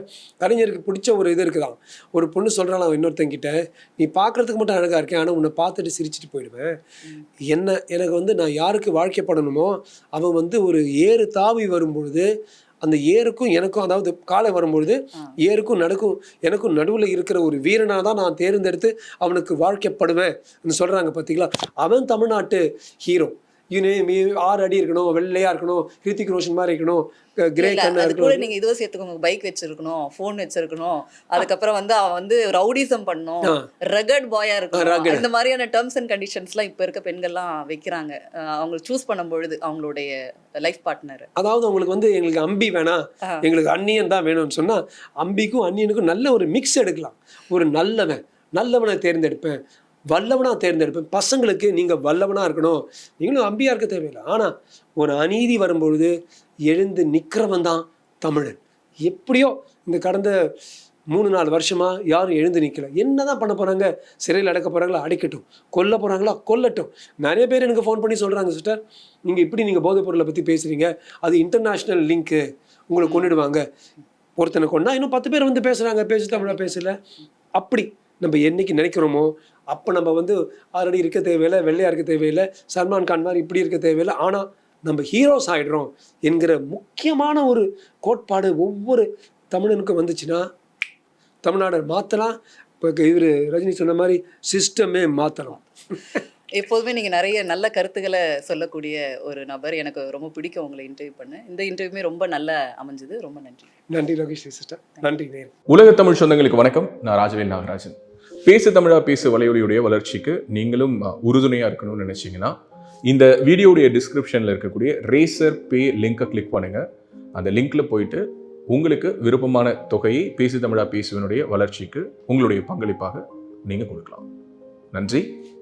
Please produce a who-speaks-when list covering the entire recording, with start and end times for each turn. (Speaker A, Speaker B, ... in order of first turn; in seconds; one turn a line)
Speaker A: 0.4-6.7
Speaker A: 7.5-12.3
Speaker A: 12.8-28.5
Speaker B: 27.6-41.3
Speaker A: 34.7-35.2
Speaker A: 41.4-49.6
Speaker A: 50.1-56.1
Speaker A: 56.7-60.4
Speaker A: 61.1-73.6
Speaker B: 73.0-73.3
Speaker A: 74.4-77.0
Speaker B: 76.3-76.8
Speaker A: 77.5-90.5
Speaker A: 91.4-95.6
Speaker B: 96.5-103.7
Speaker A: 103.9-105.5
Speaker C: 105.7-112.5
Speaker C: 113.1-116.8
Speaker C: 117.3-124.2
Speaker C: 124.9-125.3